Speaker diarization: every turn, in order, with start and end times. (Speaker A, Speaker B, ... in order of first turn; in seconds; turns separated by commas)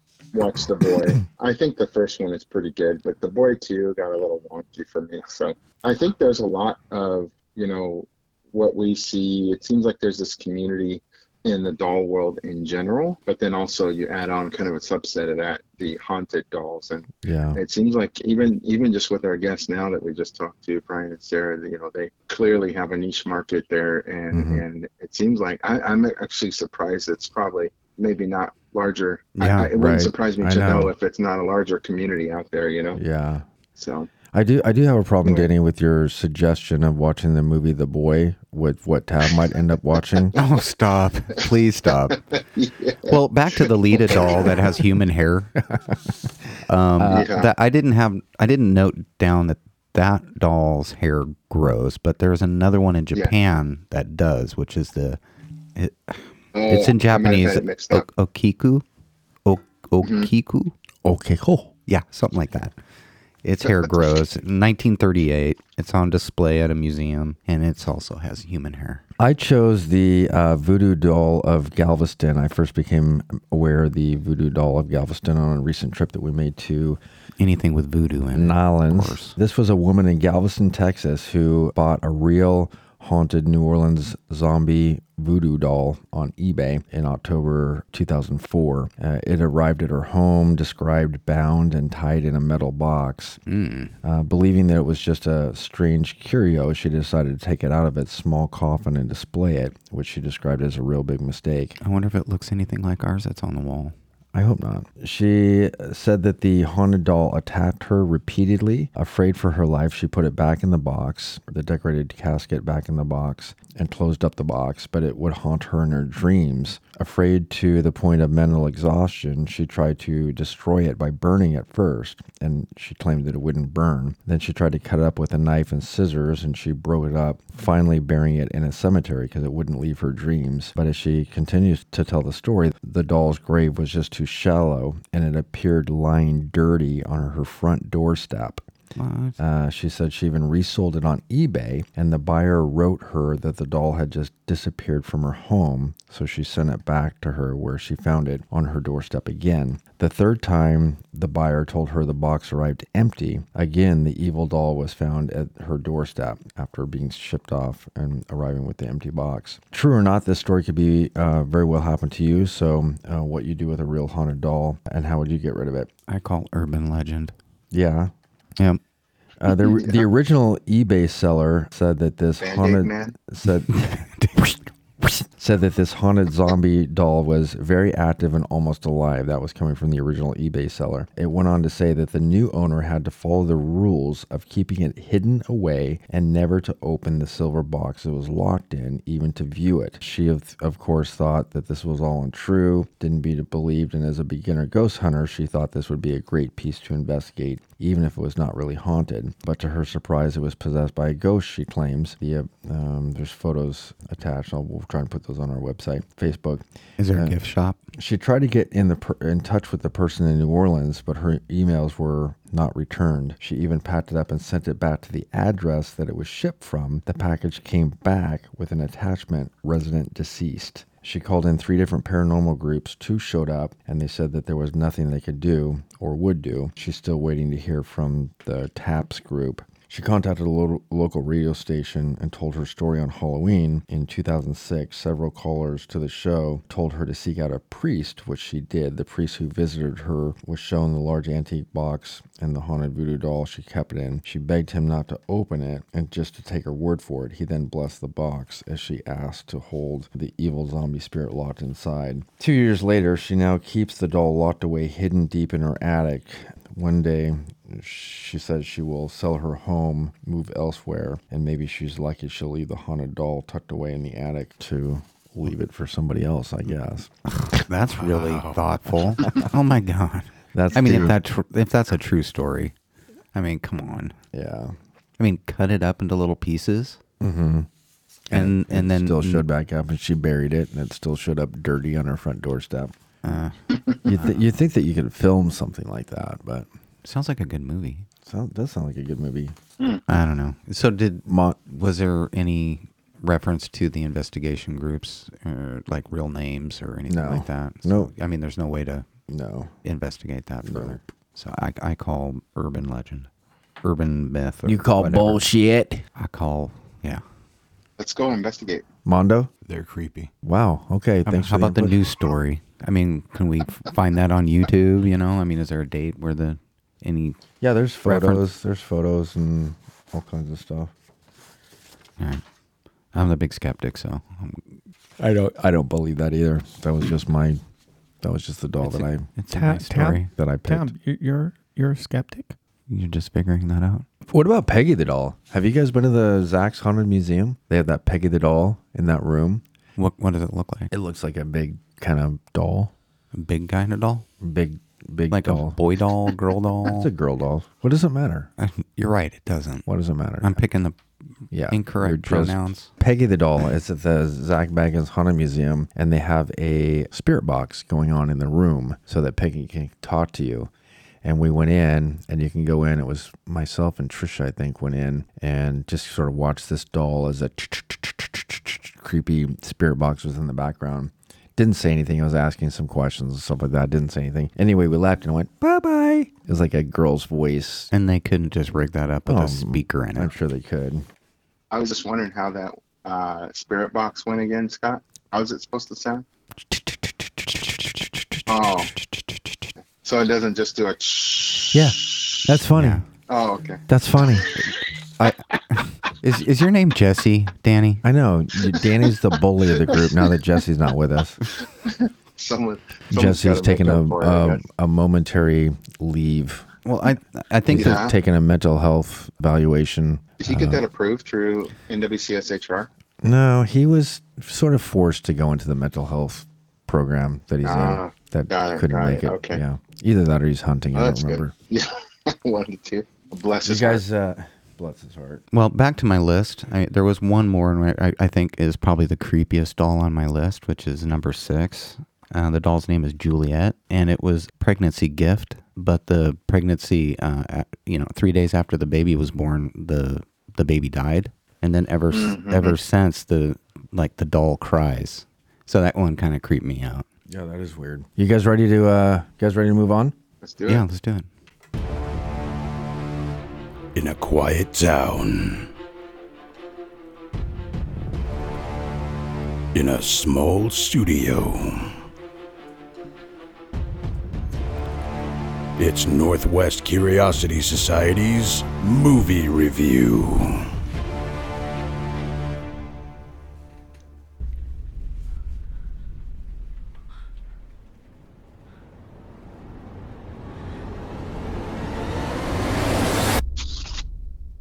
Speaker A: 0.3-33.0, Speaker B: 17.2-17.6, Speaker B: 24.3-24.6, Speaker B: 29.4-30.9, Speaker C: 29.4-29.7, Speaker B: 32.9-33.5, Speaker A: 33.8-34.1, Speaker B: 34.3-40.3, Speaker C: 40.4-42.2, Speaker A: 41.9-44.7, Speaker C: 43.1-45.5, Speaker C: 46.7-55.2, Speaker B: 47.0-47.3, Speaker A: 47.1-47.5, Speaker C: 55.8-58.8, Speaker A: 56.5-58.1, Speaker C: 59.5-60.7, Speaker A: 60.0-60.3, Speaker B: 61.0-61.7, Speaker C: 61.9-62.7, Speaker C: 63.4-69.0, Speaker A: 63.6-64.2, Speaker B: 69.2-77.0, Speaker C: 77.4-79.3, Speaker B: 78.3-93.4, Speaker C: 93.5-93.9, Speaker B: 94.0-101.8, Speaker C: 101.8-103.9, Speaker B: 104.3-138.7, Speaker C: 138.9-139.4, Speaker B: 139.4-165.9, Speaker C: 166.1-167.3, Speaker B: 167.7-168.1, Speaker B: 169.4-173.7, Speaker A: 169.6-170.0, Speaker A: 172.4-173.2, Speaker C: 173.7-174.7, Speaker B: 175.0-207.4, Speaker C: 207.0-207.8, Speaker B: 207.9-267.1, Speaker C: 267.3-272.7, Speaker D: 268.0-268.9, Speaker B: 270.5-271.1, Speaker C: 273.3-274.2, Speaker B: 274.3-274.7, Speaker C: 275.2-277.0, Speaker B: 277.2-277.7, Speaker B: 278.3-282.9, Speaker C: 278.3-279.4, Speaker C: 283.2-283.6, Speaker B: 284.1-286.7, Speaker C: 284.1-284.4, Speaker C: 287.0-288.1, Speaker B: 288.2-289.6, Speaker C: 290.1-299.1, Speaker B: 291.3-291.6, Speaker B: 297.1-298.1, Speaker B: 299.3-299.7, Speaker C: 299.8-303.3, Speaker B: 300.6-301.0, Speaker C: 303.8-305.4, Speaker B: 304.6-306.1, Speaker C: 306.2-307.2, Speaker A: 308.0-308.9, Speaker B: 309.1-309.5, Speaker D: 309.6-310.3, Speaker B: 310.4-312.0, Speaker C: 311.3-317.4, Speaker B: 317.6-320.9, Speaker C: 318.1-318.4, Speaker C: 323.1-324.6, Speaker B: 325.2-327.6, Speaker B: 328.2-329.4, Speaker C: 328.8-330.3, Speaker E: 329.5-332.6, Speaker B: 330.2-330.9, Speaker C: 332.9-334.1, Speaker B: 334.3-339.6, Speaker C: 340.0-340.9, Speaker B: 340.9-342.9, Speaker C: 343.3-344.3, Speaker B: 344.4-345.8, Speaker C: 345.3-347.1, Speaker B: 346.8-348.5, Speaker C: 348.6-349.9, Speaker B: 349.9-350.6, Speaker C: 350.4-351.0, Speaker B: 351.5-360.7, Speaker C: 351.7-352.9, Speaker B: 361.2-377.9, Speaker C: 377.9-380.3, Speaker B: 379.3-381.1, Speaker A: 381.7-386.2, Speaker C: 387.4-388.4, Speaker A: 388.5-388.9, Speaker C: 389.0-389.7, Speaker A: 390.0-391.9, Speaker B: 391.7-393.0, Speaker C: 392.8-393.0, Speaker A: 393.3-393.8, Speaker B: 393.9-394.5, Speaker C: 396.2-398.0, Speaker B: 398.0-401.4, Speaker A: 401.7-404.6, Speaker B: 403.1-406.7, Speaker C: 406.9-408.1, Speaker B: 407.7-410.8, Speaker A: 407.7-408.1, Speaker A: 410.4-412.9, Speaker B: 413.2-421.5, Speaker A: 417.6-419.6, Speaker A: 420.9-424.0, Speaker B: 423.6-425.4, Speaker C: 425.5-447.1, Speaker A: 442.1-442.8, Speaker B: 447.3-450.1, Speaker A: 450.4-450.9, Speaker C: 450.7-451.3, Speaker D: 453.9-455.7, Speaker D: 459.7-461.9, Speaker D: 465.8-470.7